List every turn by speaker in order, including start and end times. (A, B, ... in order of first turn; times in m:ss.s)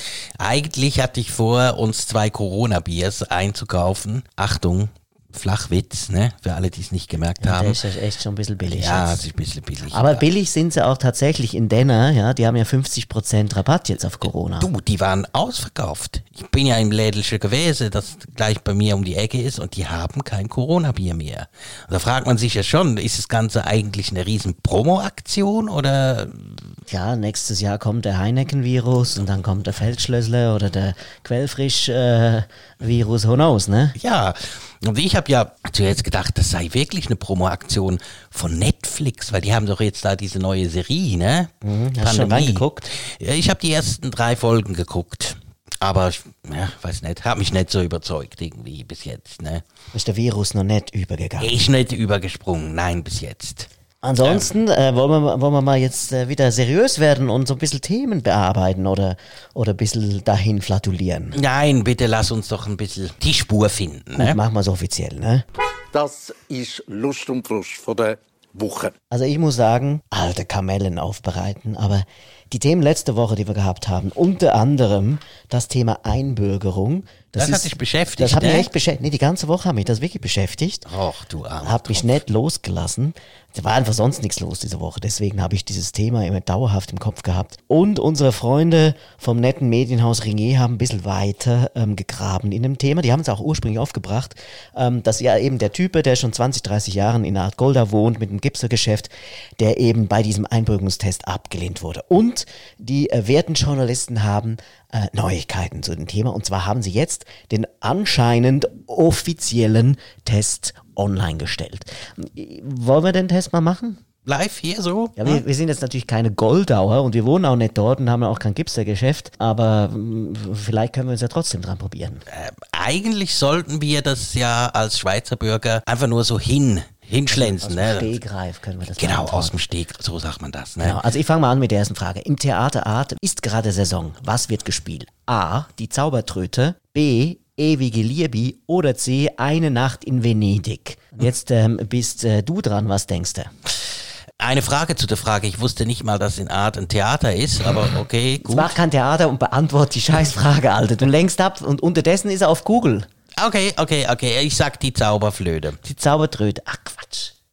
0:00.4-0:07.8 A
0:07.4-0:09.2 B
0:08.7-0:10.2 A
0:09.9-0:14.7 B
0:14.6-0:26.7 A
0:26.9-0:34.0 B
0:34.0-0:49.6 A
0:41.6-0:42.9 B
0:49.9-0:51.6 B
0:51.4-0:53.7 A
0:54.0-1:01.4 B
0:54.2-0:54.5 A
1:01.3-1:04.4 A
1:04.2-1:05.4 B
1:05.9-1:08.9 C
1:09.1-1:20.9 B
1:17.4-1:18.7 A
1:20.9-1:22.2 A
1:21.6-1:54.0 B
1:54.2-1:55.4 A
1:55.2-2:02.2 B
2:02.3-2:08.1 A
2:07.3-2:09.7 B
2:09.0-2:11.0 A
2:10.8-2:23.5 B
2:24.4-2:28.8 A
2:28.4-2:33.1 B
2:33.4-2:35.8 A
2:35.8-2:37.3 B